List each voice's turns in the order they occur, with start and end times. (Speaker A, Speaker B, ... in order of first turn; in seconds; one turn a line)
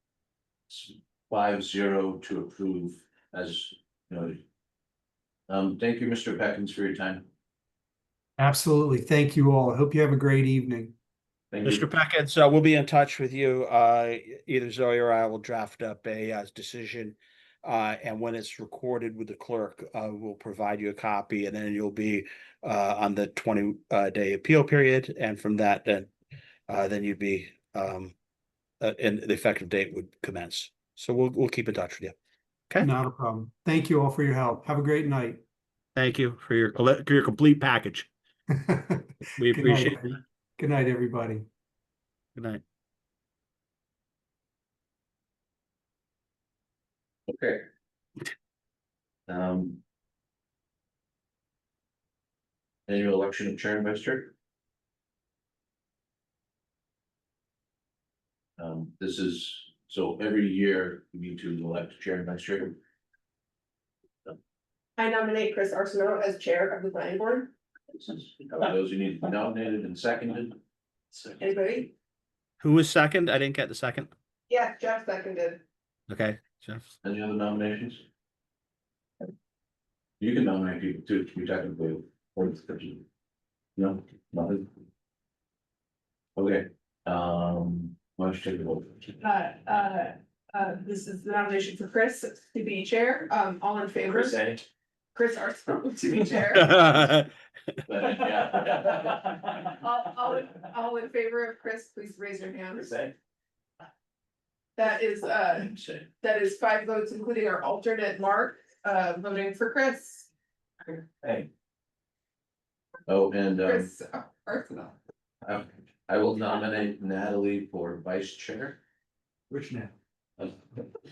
Speaker A: 0.7-4.4
Speaker A: 5.5-7.3
Speaker B: 8.4-10.9
Speaker A: 11.5-11.9
Speaker C: 11.7-26.1
Speaker C: 26.7-28.1
Speaker C: 28.8-32.1
Speaker B: 32.8-35.4
Speaker C: 36.0-38.1
Speaker B: 38.6-41.5
Speaker C: 39.4-40.2
Speaker C: 42.4-42.6
Speaker A: 47.3-47.6
Speaker A: 49.3-49.8
Speaker A: 52.9-54.3
Speaker A: 58.6-62.8
Speaker D: 65.0-67.5
Speaker A: 67.9-70.6
Speaker D: 71.2-71.9
Speaker C: 72.6-74.1
Speaker D: 74.5-75.6
Speaker C: 76.1-76.9
Speaker A: 77.0-78.0
Speaker A: 80.2-83.0
Speaker A: 83.8-84.7
Speaker A: 86.4-89.2
Speaker D: 89.2-94.4
Speaker A: 94.0-94.7
Speaker D: 95.2-96.8
Speaker C: 96.5-97.3
Speaker A: 97.9-99.3
Speaker D: 99.8-102.9
Speaker A: 102.8-103.1
Speaker D: 104.8-110.3
Speaker A: 105.8-106.0
Speaker A: 113.1-113.9
Speaker D: 113.6-115.0
Speaker A: 115.5-118.8
Speaker B: 119.5-119.9